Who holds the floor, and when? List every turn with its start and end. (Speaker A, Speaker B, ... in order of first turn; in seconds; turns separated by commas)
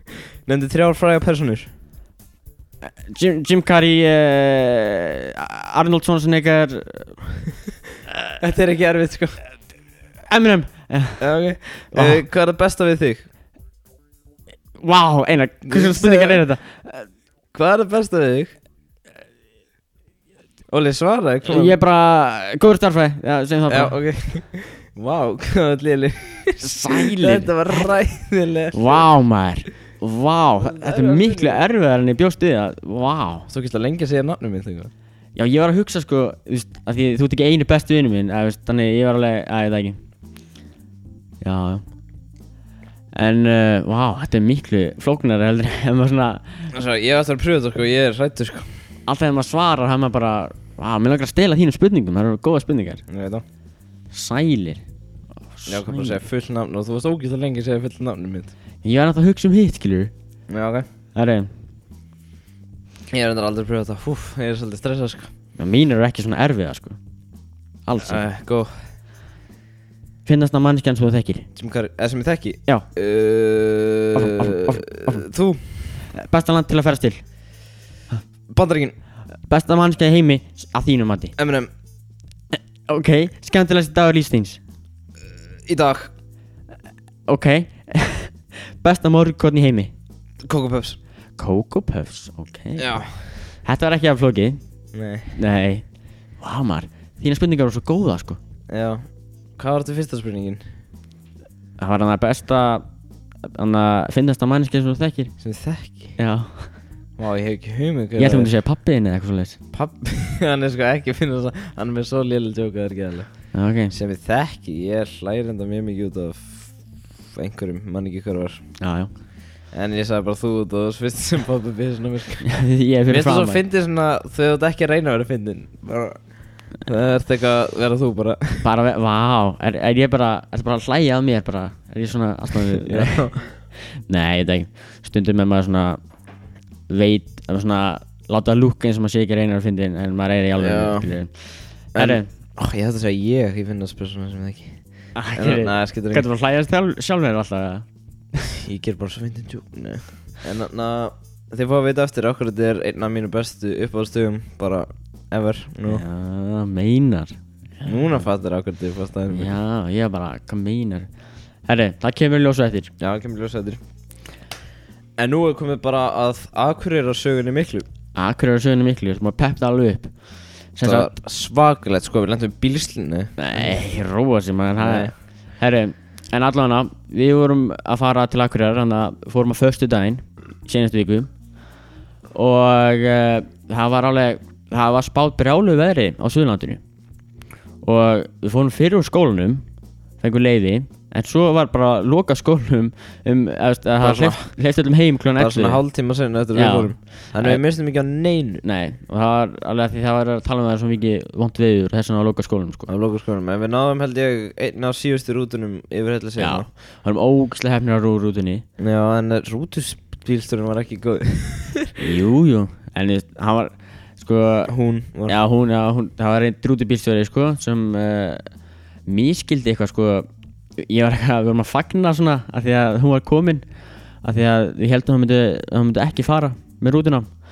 Speaker A: 0.5-1.7, Speaker B: 2.8-7.2, Speaker A: 8.4-9.4, Speaker B: 10.3-11.2, Speaker A: 11.2-13.2, Speaker B: 11.9-12.2, Speaker B: 14.8-17.0, Speaker A: 15.6-16.4, Speaker A: 17.5-18.5, Speaker A: 20.7-21.8, Speaker B: 21.5-23.9, Speaker A: 23.7-29.1, Speaker B: 26.6-27.9, Speaker B: 28.7-33.5, Speaker A: 30.6-31.6, Speaker A: 33.5-34.9, Speaker B: 35.4-40.0, Speaker B: 41.4-41.8, Speaker B: 43.1-46.7, Speaker A: 46.7-48.7, Speaker B: 49.1-53.0, Speaker A: 53.1-53.4, Speaker B: 54.1-54.8, Speaker B: 55.5-56.2, Speaker A: 55.7-58.5, Speaker B: 58.8-60.1, Speaker A: 60.5-60.9, Speaker B: 61.1-61.5, Speaker A: 63.1-65.3, Speaker B: 65.6-67.0, Speaker B: 67.8-68.2, Speaker A: 68.0-68.7, Speaker B: 70.2-71.5, Speaker A: 71.5-75.8, Speaker B: 74.1-75.2, Speaker B: 76.1-77.2, Speaker A: 78.5-78.9, Speaker B: 79.5-81.3, Speaker A: 81.4-81.7, Speaker B: 82.5-84.6, Speaker A: 85.7-86.1, Speaker B: 87.3-89.9, Speaker A: 90.4-91.0, Speaker B: 91.4-93.0, Speaker A: 92.8-93.3, Speaker B: 93.6-94.6, Speaker A: 94.9-95.4, Speaker B: 95.3-95.8, Speaker B: 96.4-98.4, Speaker A: 98.7-99.0, Speaker A: 99.6-100.6, Speaker B: 101.8-102.8, Speaker B: 103.5-105.3, Speaker A: 105.4-106.2, Speaker B: 106.2-106.7, Speaker A: 107.2-108.5, Speaker B: 108.2-109.6, Speaker A: 109.7-113.3, Speaker B: 113.5-113.9, Speaker A: 113.9-116.7, Speaker A: 117.3-118.6, Speaker B: 118.8-119.1, Speaker A: 119.7-122.5, Speaker B: 122.5-123.6, Speaker A: 123.1-126.2, Speaker A: 126.8-128.7, Speaker B: 128.6-133.2, Speaker A: 132.7-133.5, Speaker B: 133.8-136.0, Speaker B: 136.9-142.3, Speaker A: 140.6-141.1, Speaker A: 141.9-144.8, Speaker B: 145.1-147.8, Speaker A: 145.3-146.3, Speaker A: 148.4-156.0, Speaker B: 155.8-158.0, Speaker A: 157.8-159.6, Speaker B: 159.3-161.1, Speaker B: 161.7-162.9, Speaker A: 163.0-163.8, Speaker A: 165.2-167.8, Speaker B: 168.1-170.1, Speaker B: 170.7-171.1, Speaker A: 170.8-173.8, Speaker B: 173.4-181.3, Speaker A: 174.8-175.1, Speaker B: 182.3-186.8, Speaker B: 187.8-189.6, Speaker B: 190.2-195.8, Speaker A: 194.0-194.5, Speaker A: 195.4-198.6, Speaker B: 196.5-197.6, Speaker B: 198.6-202.9, Speaker A: 202.9-206.7, Speaker B: 206.4-208.6, Speaker A: 208.8-212.0, Speaker B: 212.0-214.7, Speaker A: 214.7-215.4, Speaker B: 215.3-218.5, Speaker B: 219.1-220.3, Speaker B: 220.8-223.6, Speaker B: 224.2-227.3